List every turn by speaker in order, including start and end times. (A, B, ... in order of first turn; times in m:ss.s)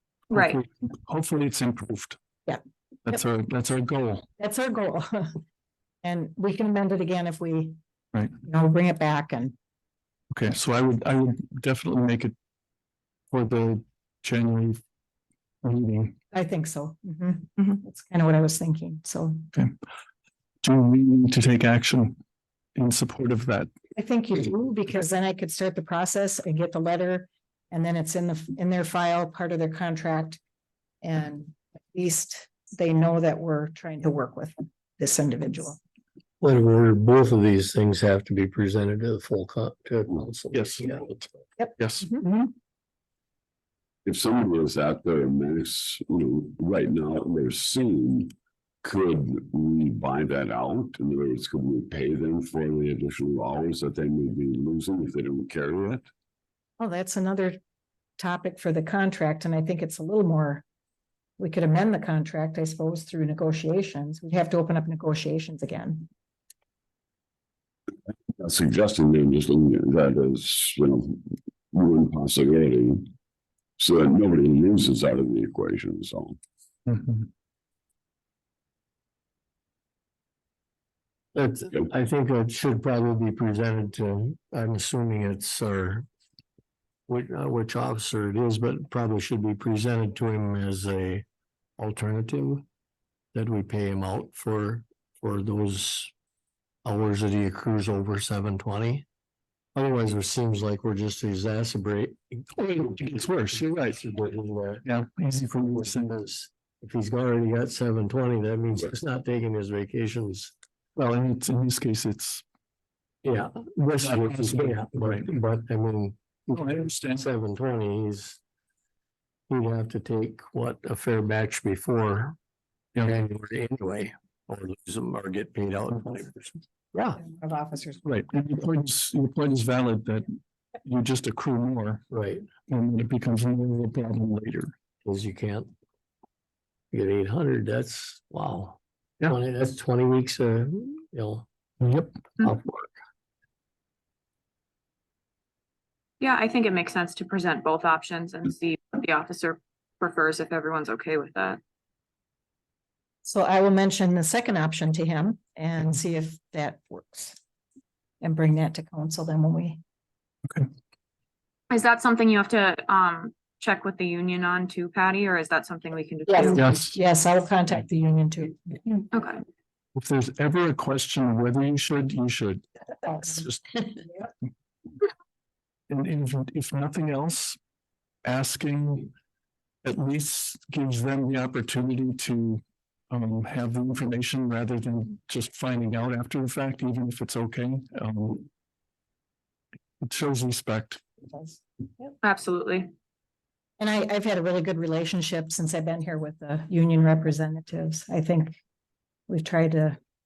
0:00.3-0:02.2 A
0:00.3-0:00.6 B
0:03.1-0:04.3 A
0:04.4-0:05.4 C
0:06.0-0:07.8 C
0:08.4-0:09.6 C
0:10.3-0:12.3 A
0:13.3-0:14.8 A
0:15.6-0:16.2 A
0:16.3-0:19.5 C
0:20.6-0:22.2 A
0:22.8-0:23.7 A
0:24.0-0:30.4 C
0:31.0-0:35.8 C
0:36.4-0:41.2 D
0:40.5-0:40.9 A
0:41.6-0:42.2 C
0:41.8-0:42.5 A
0:44.1-0:48.3 E
0:48.8-0:56.1 E
0:56.8-0:57.6 C
0:58.2-1:00.6 C
1:01.4-1:06.1 C
1:08.4-1:11.2 E
1:11.7-1:13.1 E
1:13.8-1:16.4 E
1:16.9-1:17.3 A
1:21.4-1:26.1 D
1:27.1-1:31.2 D
1:31.8-1:32.7 D
1:33.3-1:36.1 D
1:36.8-1:39.1 D
1:39.8-1:44.9 D
1:42.6-1:43.7 A
1:44.8-1:46.2 A
1:45.7-1:50.5 D
1:51.0-1:52.4 A
1:53.2-1:58.4 D
1:54.0-1:55.3 A
1:56.5-1:57.3 A
1:59.5-2:02.4 D
2:03.0-2:07.2 D
2:07.2-2:08.0 C
2:08.0-2:10.3 A
2:10.8-2:12.0 A
2:12.1-2:12.4 D
2:12.7-2:14.7 A
2:15.0-2:15.7 D
2:16.9-2:21.5 D
2:21.8-2:22.1 A
2:22.4-2:22.9 D
2:26.2-2:31.6 B
2:33.2-2:37.4 C
2:38.2-2:39.8 C
2:41.7-2:46.6 B
2:46.3-2:49.1 C
2:46.6-2:47.0 A
2:49.1-2:49.4 B
2:50.0-2:53.6 A
2:55.9-2:57.6 A
2:58.2-2:59.1 A
2:59.8-3:08.5 A
3:10.0-3:11.0 A
3:11.3-3:12.1 C
3:12.2-3:12.9 B
3:13.8-3:18.6 C
3:19.3-3:20.0 C